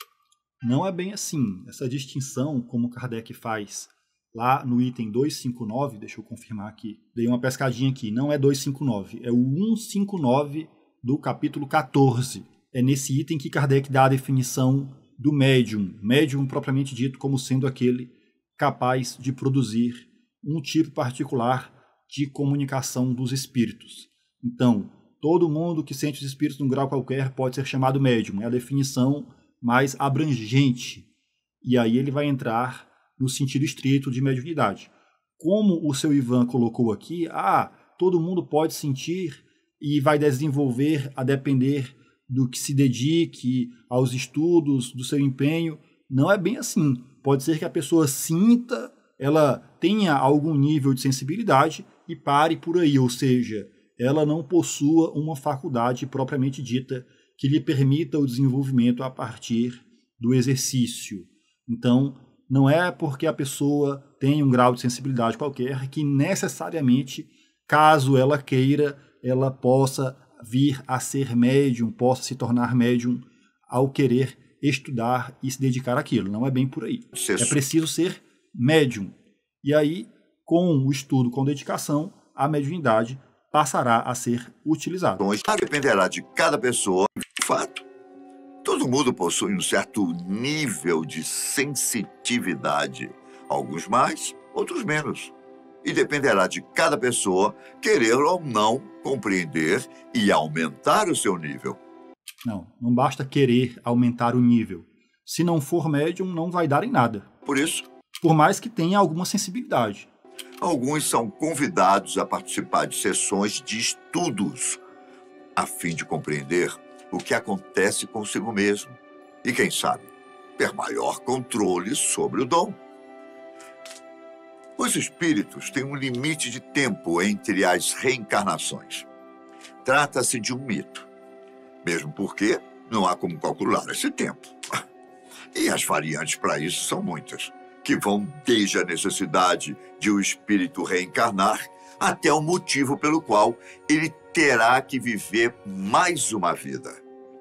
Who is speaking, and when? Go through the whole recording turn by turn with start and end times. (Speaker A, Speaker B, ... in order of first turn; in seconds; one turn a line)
Speaker A: 0.6-31.1
Speaker A: 31.6-85.3
Speaker B: 77.1-77.6
Speaker B: 85.2-87.9
Speaker B: 88.6-95.3
Speaker B: 95.8-101.8
Speaker A: 102.5-107.3
Speaker B: 107.5-107.9
Speaker A: 108.2-110.1
Speaker B: 110.6-114.8
Speaker B: 115.6-122.8
Speaker B: 124.8-129.1
Speaker B: 129.8-131.1
Speaker B: 131.8-134.8
Speaker B: 135.5-147.0